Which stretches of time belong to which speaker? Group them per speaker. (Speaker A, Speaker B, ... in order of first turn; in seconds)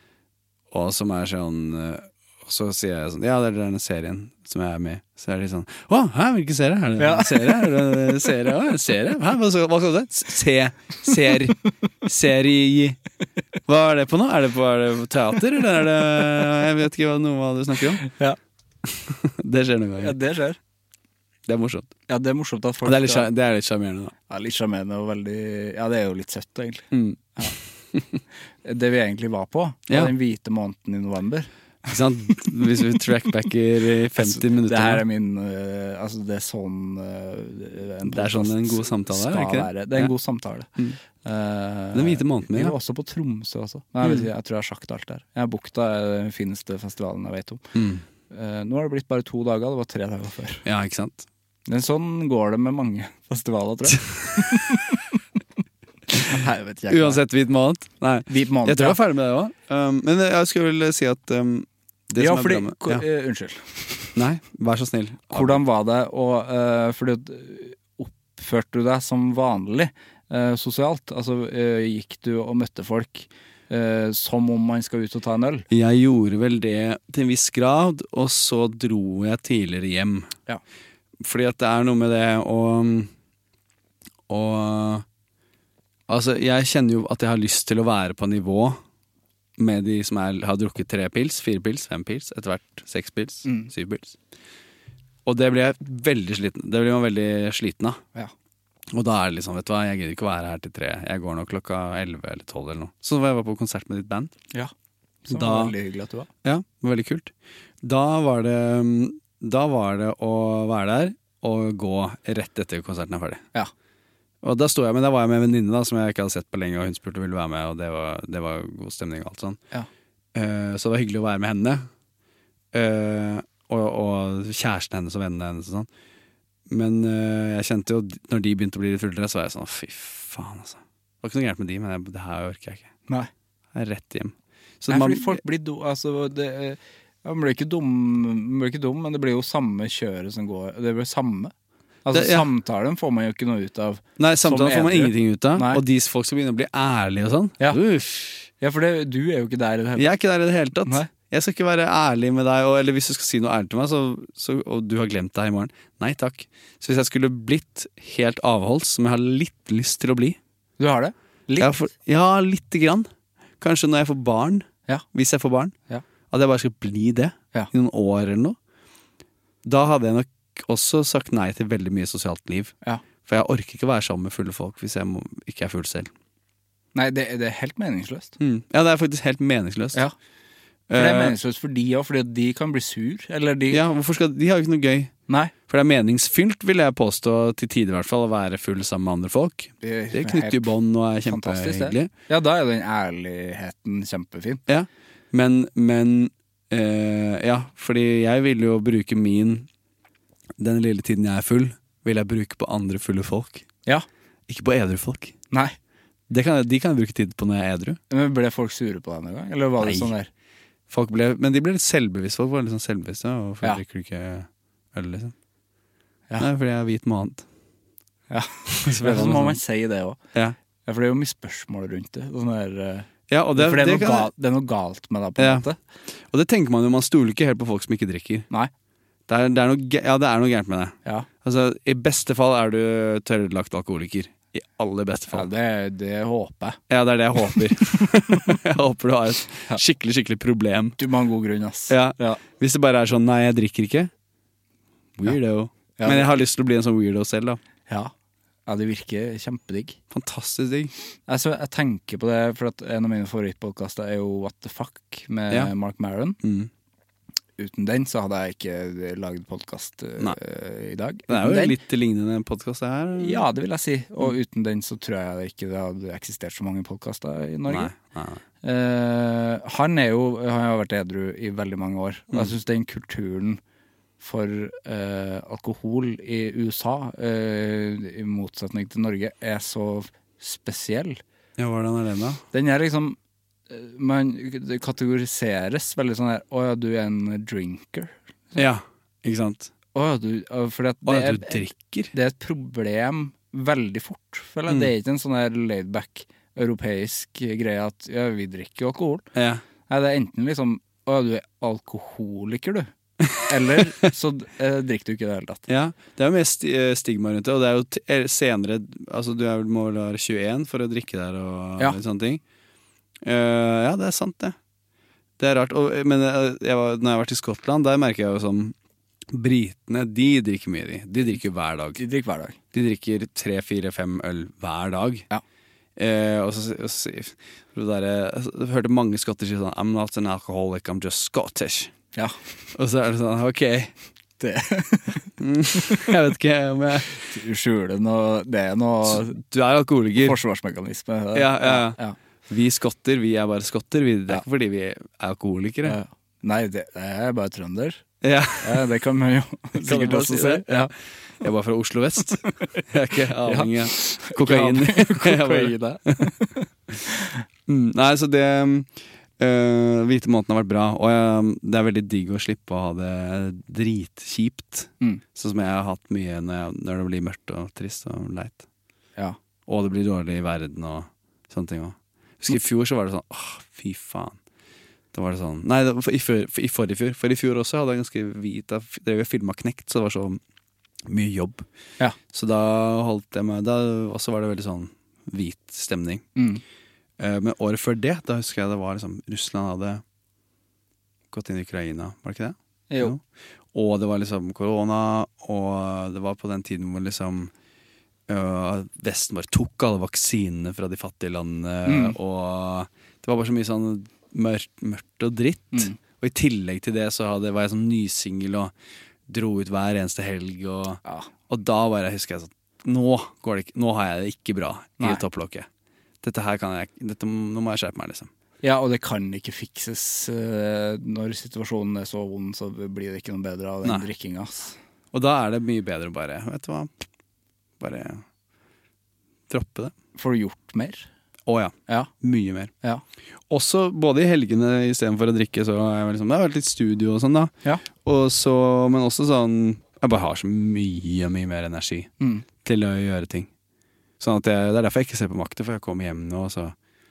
Speaker A: 0.7-13.0, 13.7-18.0, 18.9-20.2, 21.4-21.9, 22.8-24.1, 26.9-28.2, 31.9-35.0, 38.0-40.1, 41.9-42.7, 47.7-48.0, 50.6-51.3, 56.9-63.0, 64.1-65.6, 75.7-80.3, 81.2-83.1, 84.3-85.0, 86.1-88.8, 89.6-94.2, 95.2-98.0, 98.9-104.3, 105.3-105.7, 106.4-113.4, 114.4-119.6, 120.3-121.9, 122.7-125.9, 126.7-132.9, 133.7-135.4, 142.1-142.5, 144.2-148.5, 149.9-160.4, 161.6-163.1, 163.6-165.7, 166.3-168.6, 169.6-176.1, 178.4-180.0, 180.9-181.3, 183.7-185.1, 185.7-192.1, 194.7-199.7, 200.6-203.7, 204.5-205.3, 206.3-208.0, 209.8-210.1, 210.9-215.3, 216.4-217.4, 218.7-219.6, 223.3-224.3, 225.4-225.7, 226.2-228.5, 229.3-235.5, 236.9-241.0, 241.9-244.1, 245.2-247.6, 250.1-250.9, 256.4-256.7, 261.3-263.4, 267.7-268.4, 281.6-282.4, 288.6-289.7, 291.0-292.1, 299.3-299.6, 303.2-303.9, 305.7-312.4, 313.2-314.6, 315.4-318.7, 319.3-322.0, 322.7-325.2, 325.9-331.9, 332.7-333.9, 335.4-337.2, 339.0-340.4, 341.3-342.0, 342.5-346.0, 348.2-348.9, 349.8-356.3, 357.7-368.6, 369.7-374.4, 375.1-380.4, 381.1-381.6, 382.3-386.2, 387.2-390.0, 391.3-393.2, 393.7-397.5, 398.3-408.7, 409.3-415.7, 416.2-418.3, 425.1-427.0, 427.8-428.2, 429.5-429.9, 431.5-432.7, 433.5-442.1, 442.6-443.5, 444.2-446.7
Speaker B: 7.0-7.9, 18.0-18.4, 20.0-20.6, 22.1-23.3, 24.3-27.5, 28.6-31.9, 34.2-47.6, 48.3-50.6, 51.7-55.0, 56.2-57.2, 58.3-59.0, 62.2-64.1, 65.3-75.6, 93.4-93.7, 105.2-106.3, 134.9-141.5, 142.0-145.8, 148.6-150.1, 160.8-161.9, 176.9-178.3, 180.9-183.8, 185.3-185.5, 189.8-190.7, 191.2-194.6, 208.1-210.3, 218.3-220.2, 220.8-225.8, 235.3-236.8, 241.0-242.4, 245.9-246.3, 248.7-250.0, 251.3-256.4, 257.6-261.8, 263.2-267.9, 268.6-273.6, 274.2-281.2, 282.5-283.2, 283.7-288.6, 289.9-299.2, 299.9-305.6, 321.9-322.6, 334.4-336.1, 337.1-339.4, 340.1-342.1, 345.8-348.0, 348.6-350.9, 353.4-357.2, 386.4-386.6, 392.9-393.1, 401.9-402.1, 405.7-406.0, 418.6-424.8, 430.1-431.1, 442.2-442.4